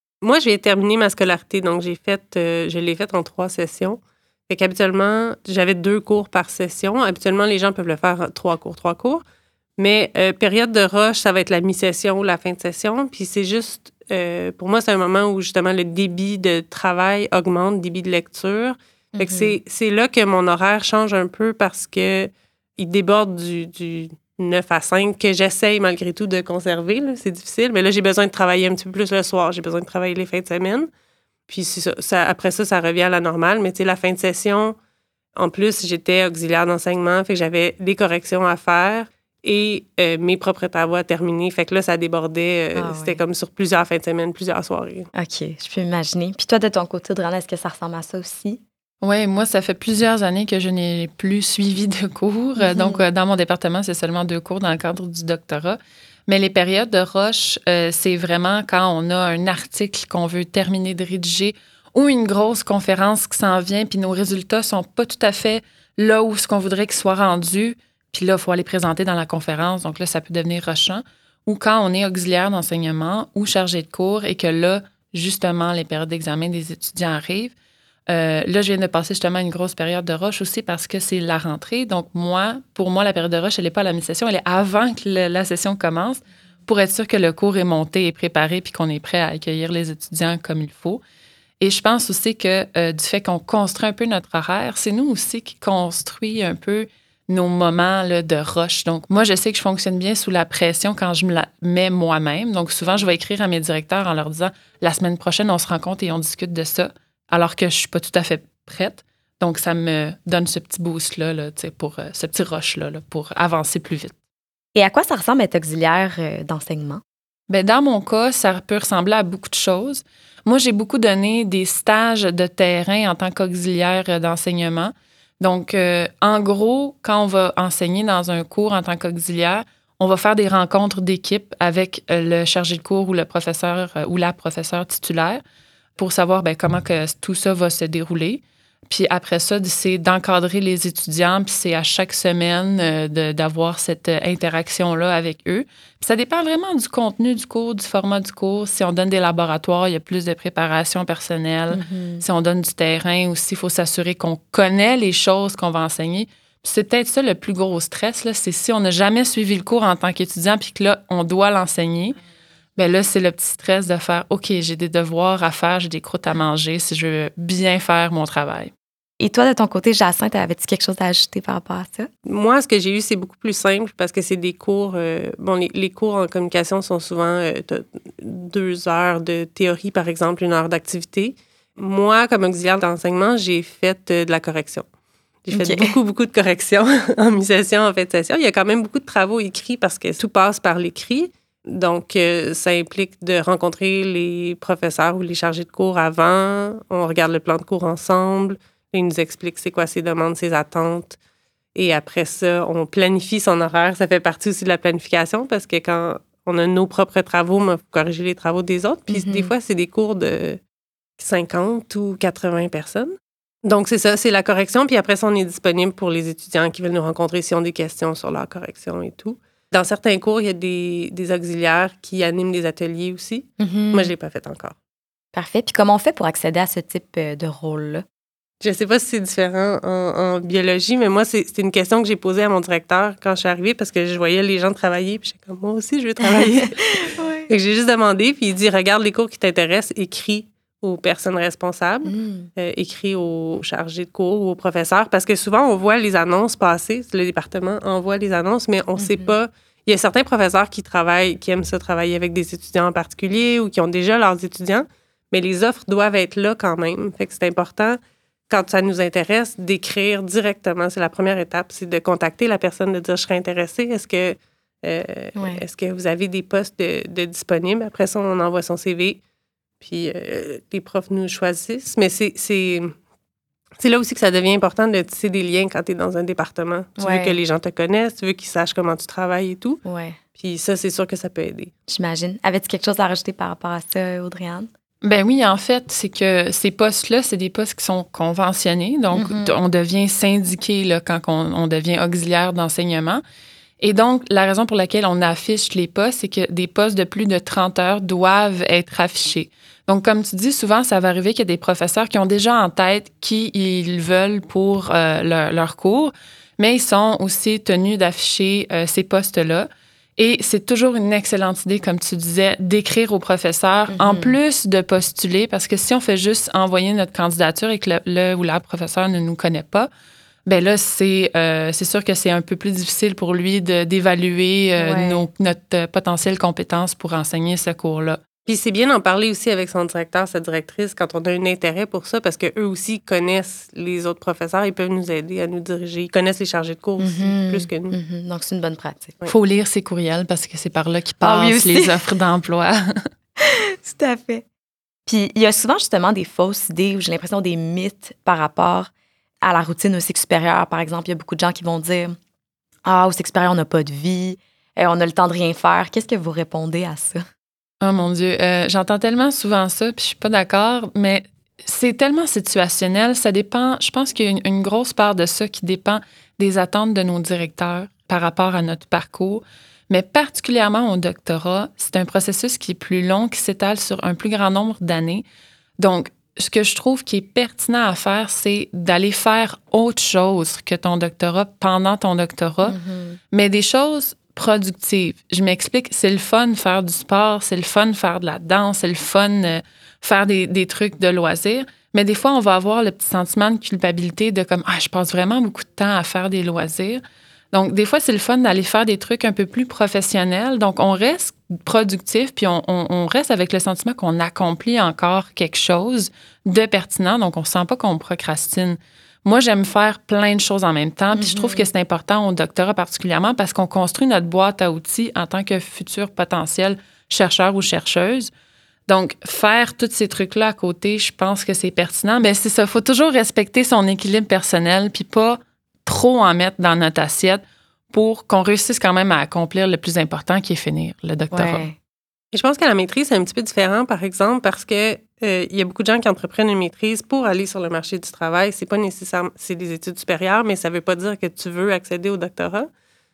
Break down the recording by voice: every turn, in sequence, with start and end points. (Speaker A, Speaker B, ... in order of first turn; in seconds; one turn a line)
Speaker A: 0.2-9.2
Speaker A: 9.8-30.9
Speaker B: 19.1-19.6
Speaker A: 31.5-34.7
Speaker A: 35.4-45.1
Speaker B: 42.7-43.2
Speaker B: 45.1-48.6
Speaker C: 49.0-77.5
Speaker B: 52.6-53.0
Speaker C: 78.1-91.0
Speaker C: 91.6-114.2
Speaker B: 114.7-117.0
Speaker C: 117.5-135.4
Speaker C: 136.0-162.2
Speaker B: 151.7-152.2
Speaker C: 162.8-168.7
Speaker B: 169.2-172.1
Speaker A: 172.2-184.9
Speaker A: 185.4-201.2
Speaker B: 185.5-185.9
Speaker A: 201.7-210.6
Speaker B: 209.1-209.5
Speaker A: 211.2-224.7
Speaker B: 223.6-224.1
Speaker B: 225.3-228.0
Speaker A: 228.6-269.2
Speaker B: 236.2-237.5
Speaker B: 242.0-242.5
Speaker B: 249.0-249.3
Speaker B: 265.3-265.6
Speaker A: 269.8-272.9
Speaker A: 273.8-279.8
Speaker B: 277.0-277.4
Speaker B: 279.8-280.2
Speaker A: 280.4-281.7
Speaker B: 281.9-284.7
Speaker C: 285.0-293.2
Speaker B: 289.1-289.5
Speaker C: 293.8-319.9
Speaker B: 313.9-314.4
Speaker C: 320.4-328.2
Speaker B: 324.8-325.2
Speaker A: 328.4-337.9
Speaker B: 337.0-339.1
Speaker C: 339.2-343.0
Speaker B: 341.2-342.0
Speaker B: 343.4-344.4
Speaker B: 345.1-352.1
Speaker B: 352.8-357.2
Speaker C: 357.8-375.2
Speaker C: 375.8-382.8
Speaker B: 382.6-383.2
Speaker C: 383.3-418.3
Speaker B: 411.1-411.7
Speaker C: 418.9-431.7
Speaker B: 431.3-431.8
Speaker A: 432.3-442.7